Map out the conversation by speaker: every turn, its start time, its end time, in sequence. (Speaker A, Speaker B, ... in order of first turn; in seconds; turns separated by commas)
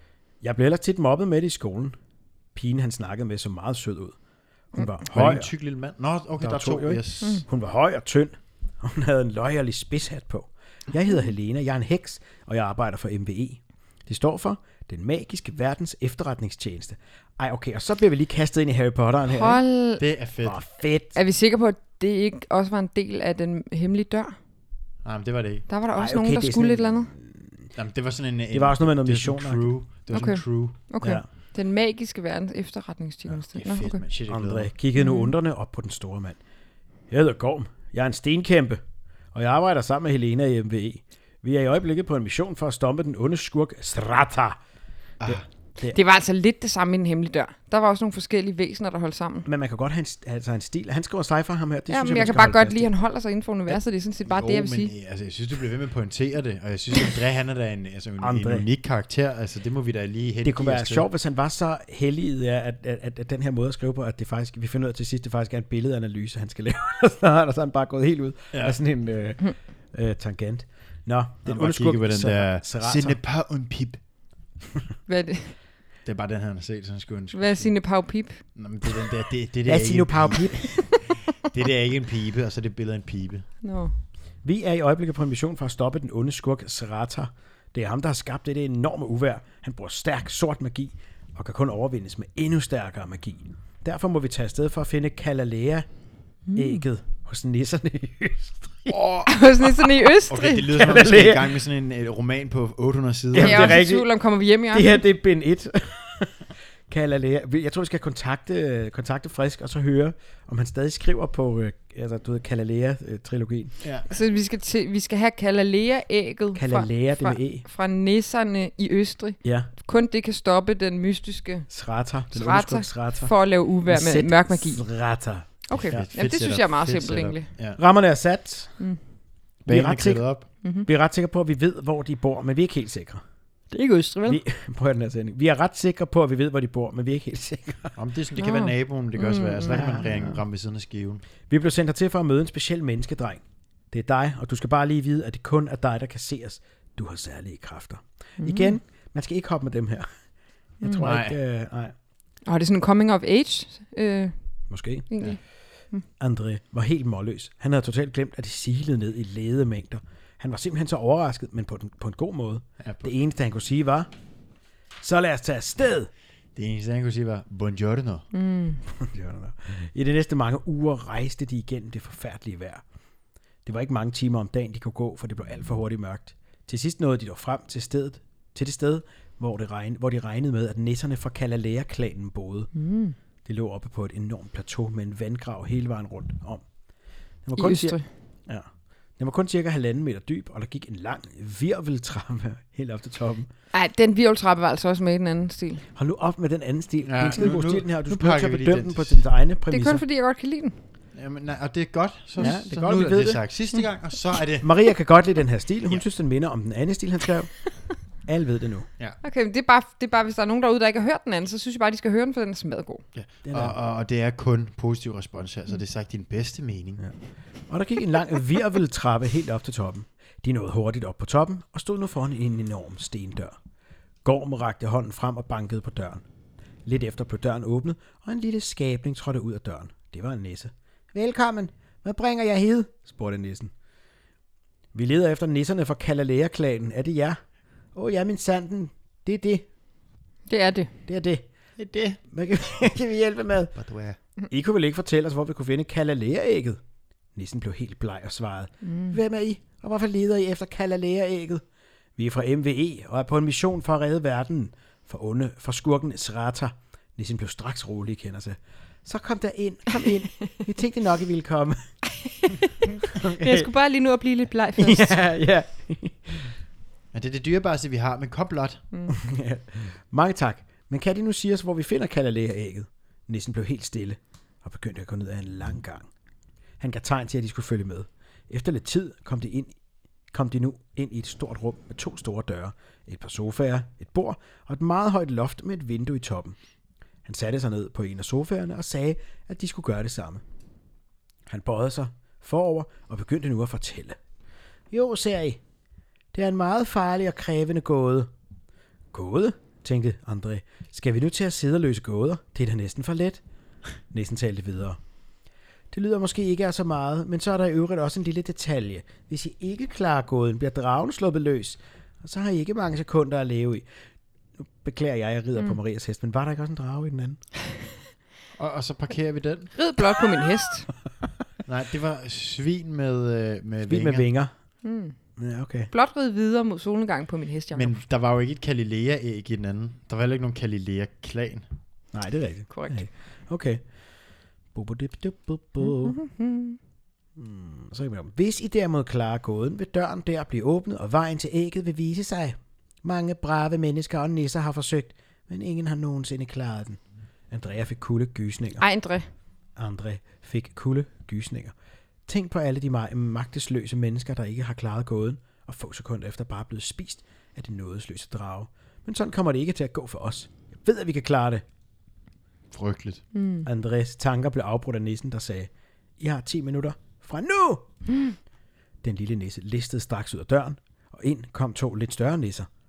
Speaker A: 0.4-2.0, Speaker A: 2.5-4.2, Speaker A: 4.7-5.5, Speaker B: 5.1-7.4, Speaker A: 6.4-19.6, Speaker C: 19.3-20.0, Speaker B: 20.0-20.6, Speaker A: 20.4-21.2, Speaker C: 21.1-24.4, Speaker B: 25.0-25.7, Speaker C: 25.7-27.1, Speaker A: 26.0-27.7, Speaker B: 27.8-30.8, Speaker A: 28.5-29.7, Speaker C: 30.1-34.0, Speaker A: 31.0-31.3, Speaker B: 33.5-34.7, Speaker A: 34.3-36.4, Speaker C: 35.0-35.3, Speaker A: 37.1-38.8, Speaker A: 39.3-44.6, Speaker B: 45.2-45.5, Speaker A: 45.3-46.0, Speaker C: 45.9-49.5, Speaker A: 49.5-52.9, Speaker C: 51.9-54.9, Speaker B: 54.2-61.1, Speaker A: 58.2-58.7, Speaker A: 60.4-73.2, Speaker B: 68.5-68.8, Speaker B: 71.5-74.0, Speaker C: 75.1-75.6, Speaker B: 76.0-77.7, Speaker C: 77.3-78.4, Speaker B: 78.5-83.5, Speaker A: 79.7-80.9, Speaker C: 83.6-83.9, Speaker A: 84.4-95.9, Speaker C: 96.5-96.8, Speaker A: 96.5-99.0, Speaker B: 98.9-103.8, Speaker C: 99.3-100.7, Speaker A: 100.7-101.5, Speaker A: 103.3-104.1, Speaker C: 103.4-105.0, Speaker A: 104.7-113.8, Speaker B: 113.8-114.1, Speaker C: 114.1-121.7, Speaker A: 116.5-117.7, Speaker A: 119.4-119.7, Speaker A: 121.7-123.3, Speaker C: 122.3-124.9, Speaker A: 123.9-126.1, Speaker C: 125.7-127.5, Speaker B: 125.9-127.8, Speaker A: 127.8-128.8, Speaker B: 129.7-130.5, Speaker A: 129.7-130.3, Speaker C: 130.6-130.9, Speaker A: 130.8-133.2, Speaker C: 133.7-134.4, Speaker A: 134.2-138.0, Speaker B: 138.0-141.2, Speaker C: 138.4-140.0, Speaker A: 139.7-140.4, Speaker A: 141.5-150.1, Speaker C: 148.4-148.8, Speaker A: 150.8-151.9, Speaker B: 151.0-151.4, Speaker C: 152.4-154.4, Speaker A: 154.7-155.1, Speaker C: 155.1-155.4, Speaker A: 156.2-164.1, Speaker B: 162.8-163.1, Speaker A: 165.0-166.1, Speaker B: 166.6-168.3, Speaker C: 168.3-168.8, Speaker A: 169.0-172.8, Speaker A: 173.7-182.7, Speaker C: 182.7-183.2, Speaker A: 183.4-186.6, Speaker A: 187.4-193.5, Speaker C: 187.6-188.1, Speaker C: 193.7-195.8, Speaker A: 195.9-200.0, Speaker B: 197.1-199.3, Speaker C: 199.7-200.8, Speaker B: 201.2-204.7, Speaker A: 202.4-203.4, Speaker A: 204.6-208.9, Speaker C: 209.2-213.0, Speaker B: 213.1-217.1, Speaker A: 213.4-213.8, Speaker A: 217.7-223.6, Speaker A: 224.2-226.2, Speaker A: 226.8-233.7, Speaker A: 234.9-237.4, Speaker A: 237.9-239.7, Speaker C: 240.5-240.9, Speaker A: 241.1-241.4, Speaker B: 241.8-242.2, Speaker A: 242.3-243.8, Speaker B: 243.8-244.2, Speaker A: 244.5-246.8, Speaker A: 247.3-251.6, Speaker C: 248.8-249.2, Speaker A: 252.2-261.9, Speaker C: 262.2-265.2, Speaker A: 263.1-263.7, Speaker A: 264.8-266.5, Speaker B: 267.1-268.8, Speaker A: 269.1-276.1, Speaker A: 276.8-279.8, Speaker A: 280.3-286.6, Speaker A: 287.2-290.4, Speaker A: 291.5-294.2, Speaker A: 294.9-295.6, Speaker A: 296.3-298.3, Speaker A: 299.1-303.4, Speaker A: 304.1-305.0, Speaker A: 305.9-313.9, Speaker A: 314.6-317.4, Speaker B: 318.6-319.7, Speaker C: 319.8-320.9, Speaker B: 321.7-324.3, Speaker A: 323.9-324.5, Speaker C: 324.8-325.2, Speaker A: 325.4-325.9, Speaker C: 325.9-328.0, Speaker B: 327.7-331.6, Speaker A: 332.1-333.8, Speaker C: 332.7-333.1, Speaker A: 334.7-336.2, Speaker C: 335.8-336.8, Speaker A: 337.4-348.9, Speaker C: 348.8-349.3, Speaker A: 349.8-351.7, Speaker A: 352.3-361.6, Speaker B: 362.7-363.2, Speaker C: 363.3-363.7, Speaker A: 363.6-367.9, Speaker A: 369.0-372.7